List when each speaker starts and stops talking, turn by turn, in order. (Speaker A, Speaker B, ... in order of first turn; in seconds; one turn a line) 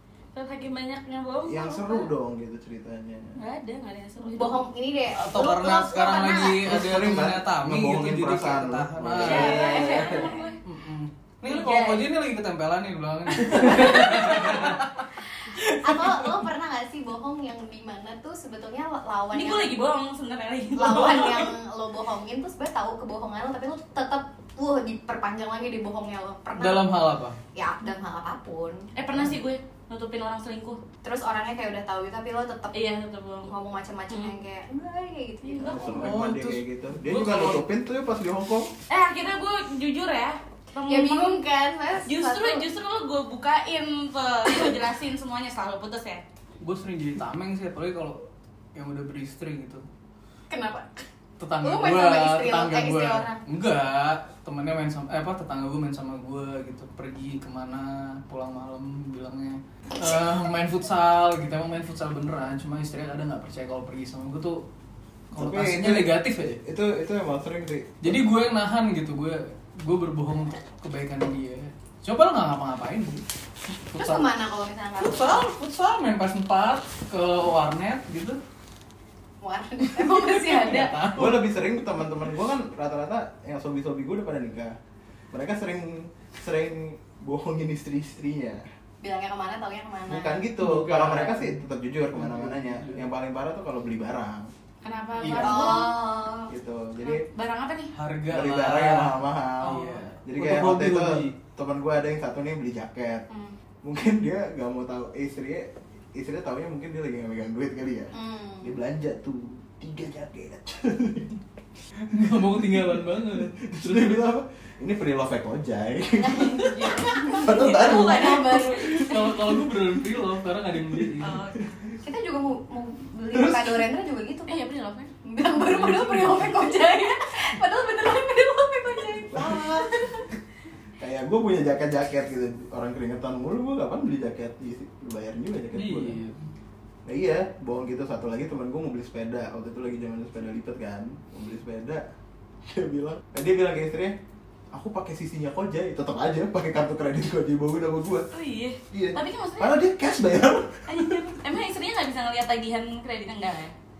Speaker A: 0.3-2.1
Speaker B: 1.5-3.4
Speaker A: 3.4-4.7
Speaker C: 4.3-6.7
Speaker D: 5.1-9.7
Speaker B: 6.6-10.3
Speaker A: 9.2-10.6
Speaker C: 9.3-10.4
Speaker D: 10.6-16.4
Speaker A: 11.5-12.0
Speaker A: 13.5-14.2
Speaker C: 15.8-19.8
Speaker A: 19.3-21.5
Speaker C: 20.7-26.9
Speaker D: 26.6-27.4
Speaker C: 27.5-28.9
Speaker A: 28.9-30.8
Speaker C: 31.0-32.8
Speaker A: 32.7-33.5
Speaker C: 33.5-36.0
Speaker A: 35.4-35.8
Speaker B: 35.6-38.7
Speaker D: 35.8-37.6
Speaker A: 38.9-41.4
Speaker C: 40.9-42.6
Speaker A: 42.0-46.2
Speaker D: 46.6-48.2
Speaker D: 48.7-49.8
Speaker C: 50.5-51.0
Speaker D: 51.4-64.6
Speaker C: 51.6-53.4
Speaker D: 65.3-66.6
Speaker B: 65.3-68.2
Speaker D: 68.0-73.2
Speaker D: 73.9-74.3
Speaker C: 74.0-75.4
Speaker D: 75.0-78.4
Speaker C: 79.4-81.0
Speaker D: 79.9-81.4
Speaker B: 81.1-84.8
Speaker B: 85.3-88.6
Speaker C: 89.0-90.5
Speaker B: 90.1-94.5
Speaker D: 90.6-91.6
Speaker D: 92.1-93.0
Speaker A: 94.8-96.0
Speaker B: 95.3-95.6
Speaker C: 95.3-96.5
Speaker B: 96.5-97.2
Speaker A: 97.0-97.9
Speaker D: 97.9-101.3
Speaker B: 98.3-103.2
Speaker A: 103.3-103.5
Speaker B: 103.8-111.4
Speaker C: 108.1-108.8
Speaker D: 112.1-114.2
Speaker B: 112.8-119.2
Speaker C: 116.2-119.0
Speaker A: 116.7-119.1
Speaker D: 119.0-121.4
Speaker A: 121.2-121.7
Speaker C: 122.0-124.6
Speaker A: 124.5-125.1
Speaker C: 125.2-129.9
Speaker D: 125.6-126.5
Speaker B: 129.3-130.3
Speaker B: 131.0-136.2
Speaker D: 135.7-136.4
Speaker B: 137.1-142.0
Speaker B: 142.7-144.2
Speaker B: 144.7-148.3
Speaker A: 148.3-149.8
Speaker B: 148.9-151.2
Speaker A: 150.9-153.7